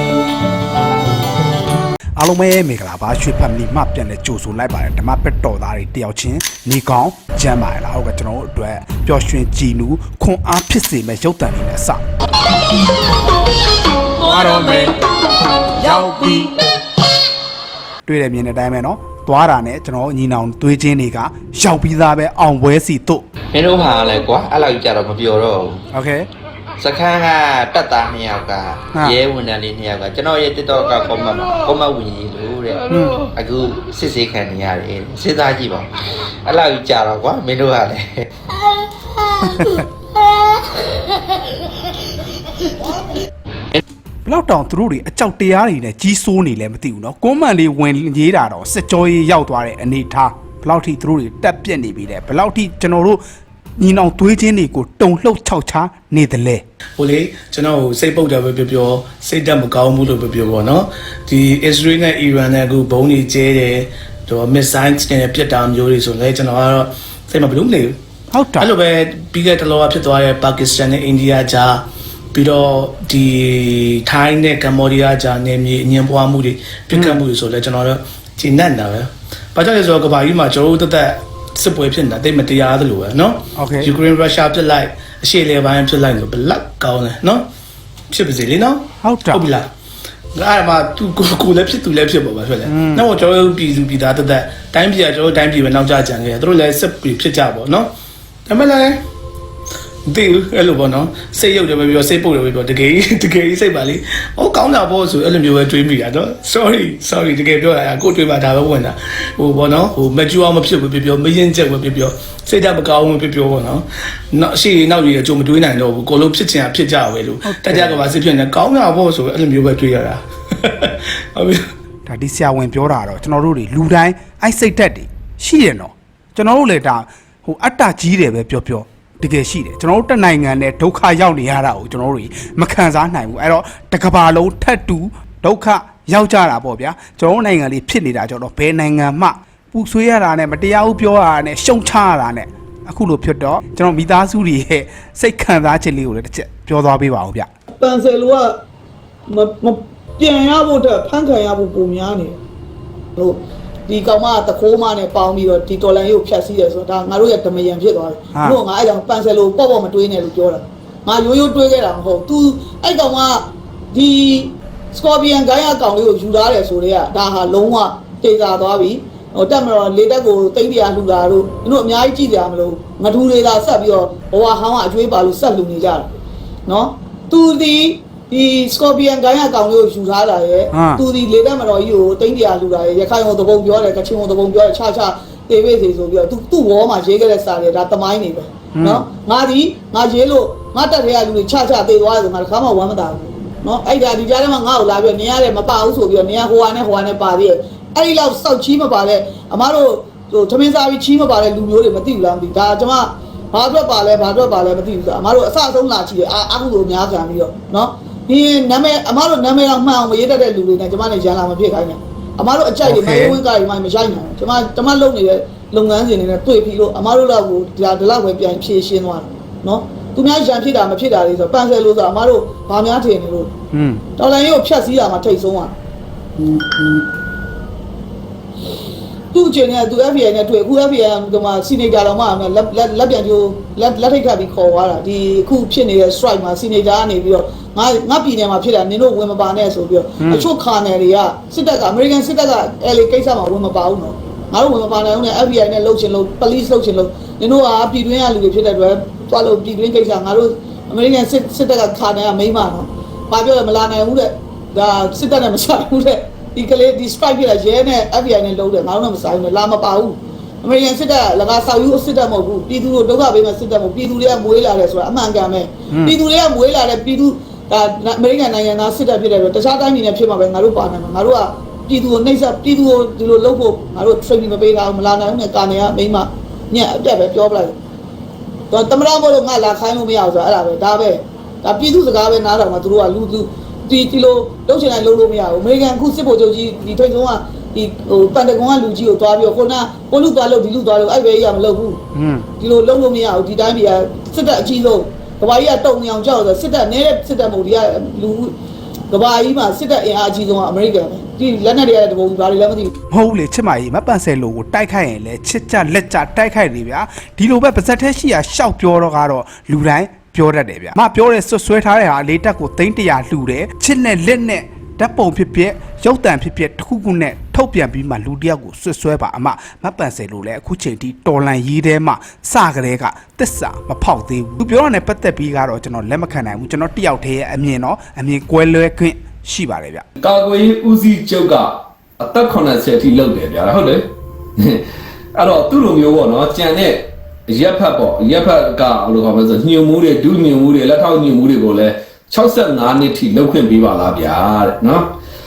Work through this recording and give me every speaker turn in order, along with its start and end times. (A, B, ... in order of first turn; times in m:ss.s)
0:02.2-0:12.0 A
0:14.2-0:15.1 A
0:15.7-0:16.6 A
0:18.1-0:23.2 A
0:23.5-0:25.8 B
0:25.9-0:26.3 A
0:26.8-0:35.9 B
0:28.9-0:29.2 A
0:32.9-0:33.2 A
0:36.5-0:38.3 B
0:39.4-0:39.8 A
0:44.3-0:53.2 A
0:53.8-0:56.6 A
0:57.0-1:08.0 C
1:08.3-1:08.7 A
1:08.6-1:27.5 C
1:16.9-1:17.2 A
1:23.6-1:24.0 A
1:28.1-1:29.7 C
1:29.0-1:29.5 A
1:30.4-1:37.9 C
1:32.7-1:33.1 A
1:38.5-1:39.0 C
1:40.1-2:01.6 C
1:57.4-1:58.1 A
2:02.1-2:27.5 A
2:27.7-2:28.5 D
2:29.3-2:32.4 D
2:33.2-2:56.1 D
2:38.3-2:38.6 A
2:56.7-3:43.5 D
3:00.7-3:01.0 A
3:08.7-3:09.0 A
3:32.8-3:33.4 A
3:43.7-3:44.0 A
3:44.2-3:45.7 D
3:49.3-4:37.8 D
4:00.2-4:00.5 A
4:25.9-4:26.2 A
4:38.7-4:52.0 D
4:52.2-4:52.5 A
4:52.6-4:58.5 D
4:59.1-5:02.9 D
5:03.1-5:30.0 A
5:30.2-5:34.1 E
5:34.6-5:45.1 E